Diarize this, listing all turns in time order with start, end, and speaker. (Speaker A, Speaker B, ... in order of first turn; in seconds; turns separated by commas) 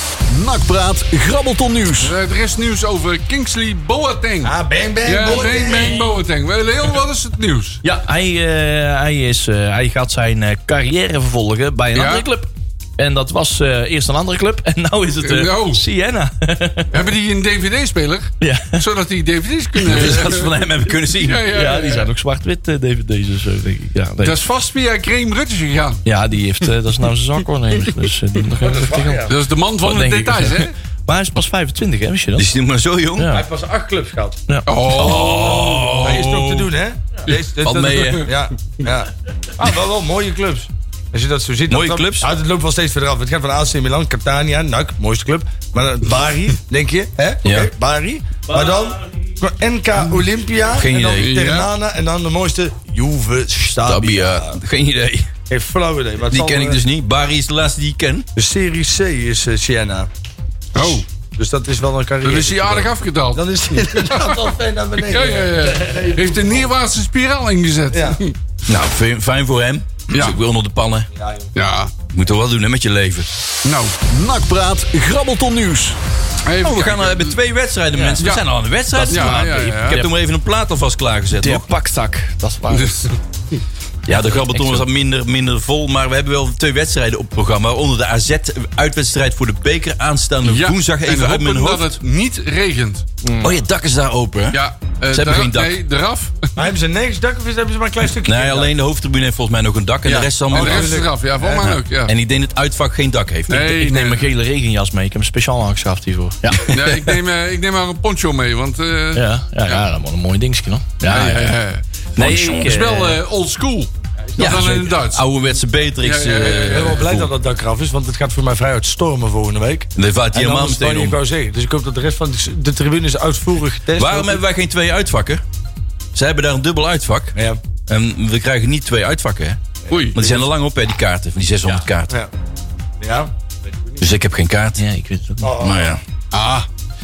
Speaker A: 0.2-2.1, Speaker B: 2.0-7.8, Speaker C: 4.4-6.1, Speaker D: 7.8-17.0, Speaker B: 11.9-12.3, Speaker B: 15.2-15.8, Speaker B: 16.9-20.5, Speaker D: 18.4-18.8, Speaker E: 19.8-21.5, Speaker B: 21.1-22.1, Speaker D: 21.5-24.4, Speaker B: 24.2-26.0, Speaker D: 26.0-32.5, Speaker C: 28.6-29.4, Speaker B: 29.3-30.7, Speaker E: 32.4-33.4, Speaker D: 33.2-33.4, Speaker C: 33.3-34.4, Speaker B: 34.6-36.4, Speaker C: 34.9-54.6, Speaker E: 34.9-36.7, Speaker E: 37.6-38.3, Speaker E: 41.7-42.3, Speaker E: 47.4-47.7, Speaker D: 48.5-49.1, Speaker E: 50.7-51.5, Speaker B: 51.1-51.7, Speaker E: 53.8-55.3, Speaker C: 55.5-56.8, Speaker E: 56.3-58.3, Speaker C: 58.4-60.1, Speaker B: 60.7-61.1, Speaker C: 60.8-66.7, Speaker B: 62.2-68.3, Speaker C: 67.9-68.2, Speaker E: 68.7-71.1, Speaker B: 70.1-70.4, Speaker C: 71.2-71.5, Speaker B: 71.5-71.9, Speaker E: 72.1-73.3, Speaker B: 73.6-73.9, Speaker A: 74.1-76.0, Speaker B: 76.4-77.4, Speaker E: 76.6-81.7, Speaker B: 78.2-78.4, Speaker D: 78.9-80.1, Speaker B: 79.1-80.0, Speaker D: 81.4-83.1, Speaker B: 82.7-83.1, Speaker D: 84.1-84.9, Speaker E: 84.1-92.0, Speaker B: 90.4-93.0, Speaker D: 93.2-93.6, Speaker E: 93.4-95.8, Speaker B: 94.5-96.5, Speaker C: 96.5-98.7, Speaker E: 98.2-103.8, Speaker B: 100.0-102.1, Speaker C: 100.5-101.1, Speaker B: 103.5-104.3, Speaker D: 103.8-107.0, Speaker B: 106.7-109.8, Speaker D: 109.1-111.5, Speaker B: 111.1-111.8, Speaker E: 112.2-112.7, Speaker D: 112.2-113.2, Speaker B: 112.4-115.2, Speaker C: 114.3-114.7, Speaker E: 114.3-117.3, Speaker B: 116.0-117.0, Speaker C: 116.4-124.4, Speaker E: 120.0-121.2, Speaker E: 124.0-125.4, Speaker E: 126.1-127.3, Speaker C: 127.3-127.6, Speaker E: 127.9-129.6, Speaker B: 129.9-130.2, Speaker C: 129.9-130.5, Speaker E: 130.1-132.2, Speaker C: 133.0-133.3, Speaker E: 134.0-134.8, Speaker D: 134.8-135.6, Speaker C: 135.4-135.9, Speaker E: 135.6-136.0, Speaker B: 136.3-136.7